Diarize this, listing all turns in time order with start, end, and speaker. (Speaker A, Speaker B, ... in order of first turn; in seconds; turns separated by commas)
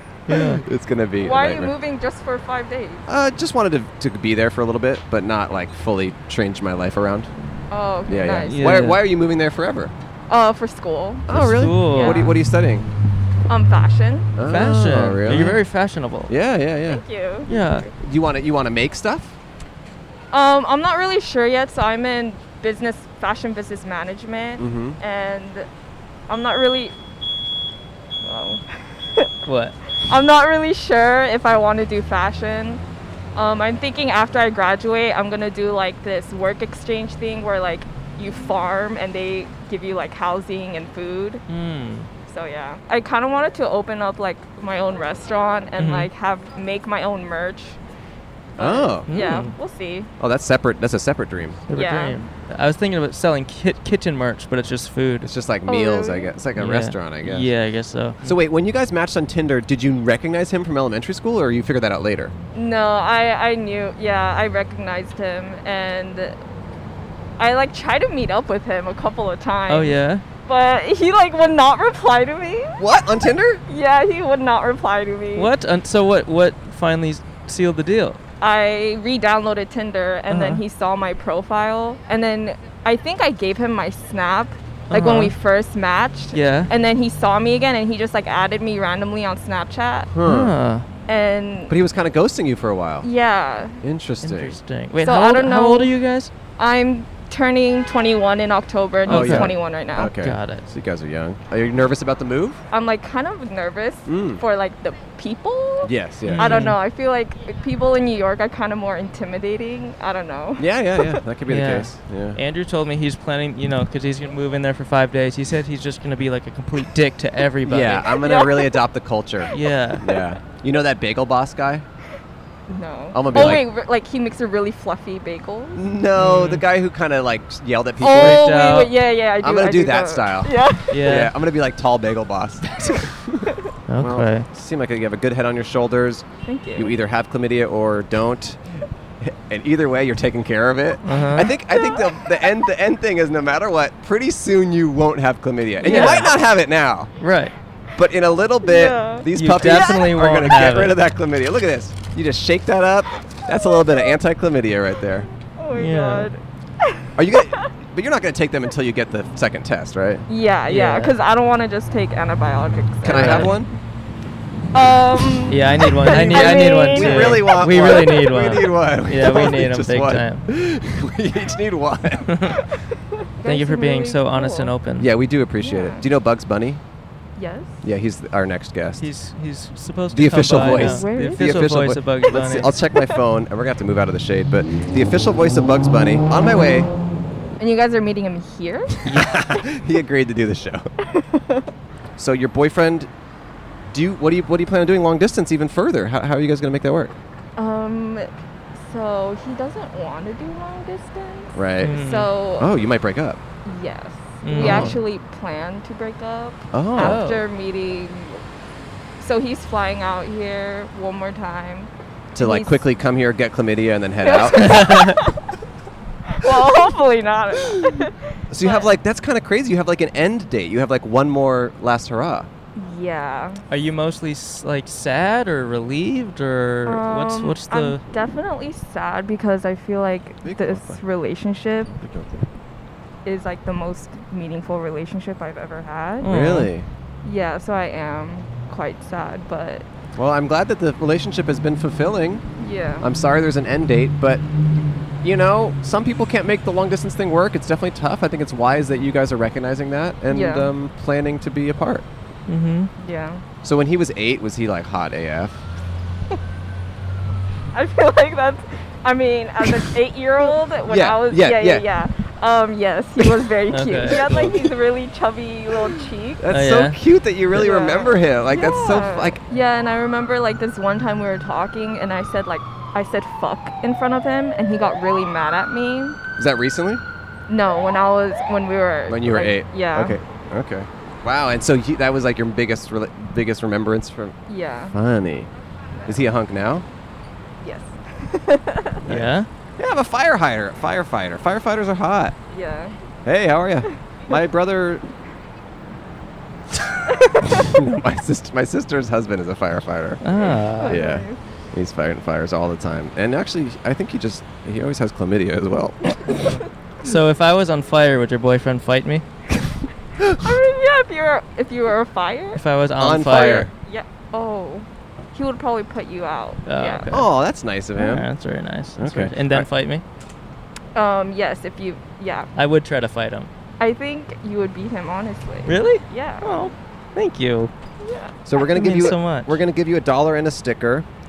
Speaker A: 0.3-0.6, Speaker B: 0.3-1.7, Speaker C: 1.2-3.0, Speaker B: 3.1-7.3, Speaker C: 7.7-8.8, Speaker B: 8.1-9.9, Speaker A: 8.5-9.0, Speaker C: 10.3-11.3, Speaker B: 11.3-12.9, Speaker A: 11.3-12.3, Speaker C: 11.9-12.3, Speaker C: 13.5-14.3, Speaker B: 14.4-15.6, Speaker A: 14.5-16.3, Speaker B: 16.3-17.0, Speaker C: 16.9-17.9, Speaker A: 17.5-17.9, Speaker B: 18.0-19.4, Speaker C: 20.3-25.7, Speaker B: 24.6-25.0, Speaker C: 26.3-26.9, Speaker C: 28.2-29.3, Speaker A: 29.5-29.8, Speaker C: 30.0-32.8, Speaker C: 33.4-41.4, Speaker A: 41.5-42.1, Speaker C: 42.3-47.8, Speaker A: 45.8-46.1, Speaker B: 48.6-49.1, Speaker C: 48.6-50.1, Speaker A: 49.1-49.5, Speaker B: 50.2-51.6, Speaker A: 51.7-55.3, Speaker C: 51.7-52.2, Speaker B: 55.2-57.5, Speaker C: 55.7-56.3, Speaker A: 56.6-58.4, Speaker B: 58.2-62.3, Speaker C: 62.5-66.4, Speaker C: 67.4-72.8, Speaker A: 69.7-70.2, Speaker B: 72.8-73.6, Speaker C: 73.7-75.5, Speaker A: 75.3-78.2, Speaker C: 78.4-90.1, Speaker A: 80.3-80.6, Speaker A: 84.9-85.3, Speaker A: 86.3-86.7, Speaker B: 90.1-90.5, Speaker A: 90.2-90.9, Speaker C: 91.1-91.8, Speaker B: 91.7-93.1, Speaker C: 93.0-93.8, Speaker B: 93.8-94.6, Speaker A: 94.2-96.3, Speaker C: 95.0-95.9, Speaker C: 96.6-100.1, Speaker B: 99.1-102.6, Speaker A: 99.1-99.5, Speaker A: 100.1-100.7, Speaker C: 102.7-111.2, Speaker B: 104.1-104.4, Speaker B: 105.8-106.7, Speaker A: 106.3-106.8, Speaker B: 110.6-112.4, Speaker A: 111.5-118.1, Speaker B: 117.7-121.9, Speaker C: 118.1-118.8, Speaker A: 119.5-120.0, Speaker C: 122.7-125.8, Speaker B: 123.1-123.6, Speaker B: 125.8-128.5, Speaker A: 126.2-126.6, Speaker C: 128.0-131.0, Speaker A: 128.1-128.9, Speaker B: 129.4-138.6, Speaker A: 130.9-131.3, Speaker C: 133.5-133.7, Speaker A: 133.9-134.5, Speaker C: 136.5-136.9, Speaker B: 139.2-147.1, Speaker A: 141.1-141.5, Speaker C: 141.7-142.1, Speaker A: 145.8-146.3, Speaker C: 145.8-146.2, Speaker A: 147.2-147.6, Speaker B: 148.0-155.3, Speaker C: 148.6-149.3, Speaker A: 149.3-151.0, Speaker C: 153.8-154.1, Speaker C: 155.6-157.7, Speaker A: 155.8-156.3, Speaker B: 157.2-160.2, Speaker C: 160.3-163.6, Speaker A: 160.7-161.1, Speaker B: 163.0-163.7, Speaker A: 163.1-163.5, Speaker C: 164.7-168.1, Speaker A: 165.5-170.5, Speaker B: 166.0-172.3, Speaker A: 172.3-172.6, Speaker C: 172.6-174.7, Speaker A: 173.4-175.1, Speaker B: 175.0-176.8, Speaker C: 175.6-176.1, Speaker C: 177.4-177.8, Speaker B: 177.8-179.1, Speaker A: 179.0-182.7, Speaker B: 180.1-186.9, Speaker C: 180.6-181.7, Speaker C: 182.3-183.2, Speaker C: 187.6-189.0, Speaker A: 189.1-189.3, Speaker B: 189.1-190.9, Speaker C: 191.1-191.7, Speaker B: 192.2-193.1, Speaker B: 193.9-197.2, Speaker C: 197.6-202.7, Speaker B: 201.5-202.0, Speaker A: 201.8-202.3, Speaker B: 202.6-203.4, Speaker C: 203.7-208.4, Speaker A: 204.4-205.0, Speaker B: 204.5-205.0, Speaker B: 206.7-207.2, Speaker A: 207.0-207.4, Speaker C: 209.2-212.8, Speaker B: 212.3-215.0, Speaker C: 214.2-215.4, Speaker A: 214.6-215.2, Speaker C: 216.3-218.9, Speaker B: 218.5-222.5, Speaker C: 222.8-223.6, Speaker A: 223.7-228.0, Speaker C: 226.9-231.9, Speaker B: 230.4-231.0, Speaker B: 231.9-232.5, Speaker C: 233.2-236.3, Speaker A: 236.2-236.7, Speaker B: 236.2-236.9, Speaker C: 237.2-239.8, Speaker B: 240.2-242.4, Speaker C: 242.6-243.1, Speaker B: 243.0-244.4, Speaker B: 245.2-252.1, Speaker C: 250.3-250.7, Speaker A: 252.5-252.9, Speaker C: 253.0-253.4, Speaker B: 253.6-255.6, Speaker C: 257.7-266.4, Speaker B: 260.9-261.9, Speaker A: 263.7-264.5, Speaker B: 264.0-264.7, Speaker B: 266.4-269.4, Speaker A: 266.5-267.0, Speaker C: 267.5-276.2, Speaker B: 276.4-277.0, Speaker C: 277.5-280.2, Speaker B: 279.1-284.4, Speaker C: 284.5-284.9, Speaker B: 284.9-285.5, Speaker B: 286.1-286.9, Speaker C: 287.6-289.0, Speaker B: 289.0-292.4, Speaker A: 289.1-289.5, Speaker C: 292.5-292.9, Speaker B: 293.3-295.0, Speaker C: 297.1-297.6, Speaker B: 297.4-300.2, Speaker A: 300.2-301.0, Speaker C: 300.4-301.4, Speaker B: 300.8-306.1, Speaker A: 307.0-309.2, Speaker B: 310.2-310.5, Speaker C: 310.4-312.6, Speaker A: 312.6-313.7, Speaker B: 313.0-313.7, Speaker C: 313.3-317.1, Speaker A: 316.7-317.3, Speaker B: 317.1-318.3, Speaker A: 317.9-320.0, Speaker B: 319.0-319.7, Speaker C: 320.9-322.5, Speaker A: 322.6-323.5, Speaker C: 323.8-326.7, Speaker A: 325.7-327.7, Speaker C: 328.0-328.4, Speaker B: 328.5-331.1, Speaker A: 328.6-329.6